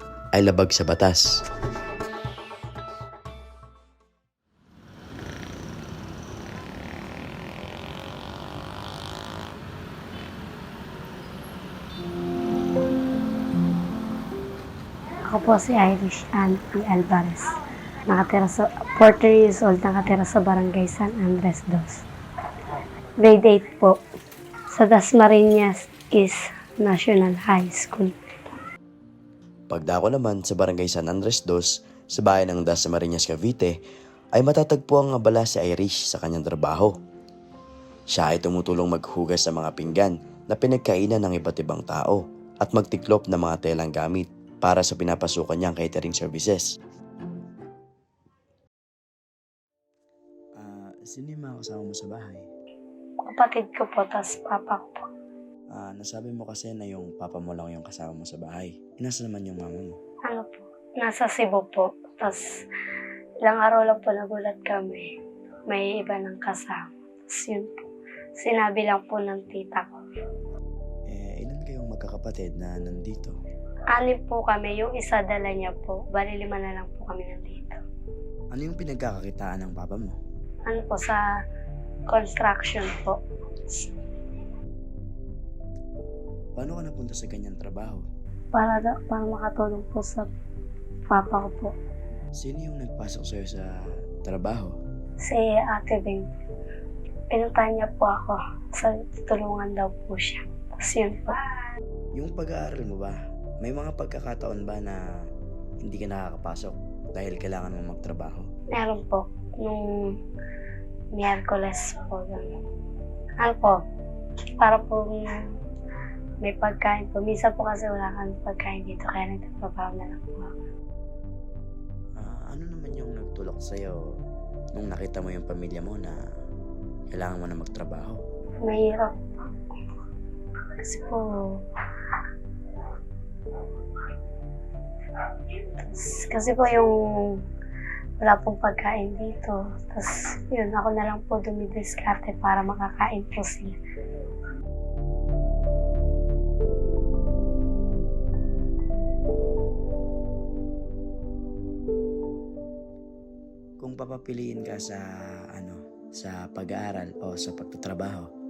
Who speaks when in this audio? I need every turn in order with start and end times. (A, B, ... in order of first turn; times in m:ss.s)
0:00.3-0:01.2 A
0:15.3-0:17.5 B
0:18.1-0:22.0 B
0:23.2-0:24.0 B
0:24.8-0:28.1 B
0:29.7-0:33.8 A
0:34.4-0:36.9 A
0:38.1-0:46.6 A
0:50.6-0:52.5 A
0:53.2-0:55.0 B
0:55.7-1:00.0 A
1:00.3-1:02.4 B
1:03.4-1:05.1 B
1:05.7-1:07.8 B
1:08.4-1:09.9 B
1:11.1-1:13.4 A
1:13.9-1:17.8 B
1:18.5-1:20.2 A
1:20.7-1:21.2 B
1:22.1-1:23.2 B
1:26.6-1:28.0 A
1:28.5-1:30.3 B
1:31.1-1:31.7 B
1:32.4-1:33.7 A
1:34.2-1:34.8 A
1:35.2-1:36.3 B
1:37.3-1:41.4 B
1:42.2-1:45.0 A
1:45.8-1:48.5 A
1:48.7-1:50.0 B
1:51.1-1:52.6 B
1:53.4-1:53.8 B
1:54.6-1:55.2 B
1:56.4-2:00.5 B
2:02.2-2:04.0 A
2:04.8-2:06.2 A
2:07.1-2:08.2 A
2:08.6-2:09.2 B
2:10.9-2:11.3 B
2:15.9-2:16.9 B
2:18.2-2:23.8 B
2:33.8-2:35.0 A
2:35.6-2:38.3 A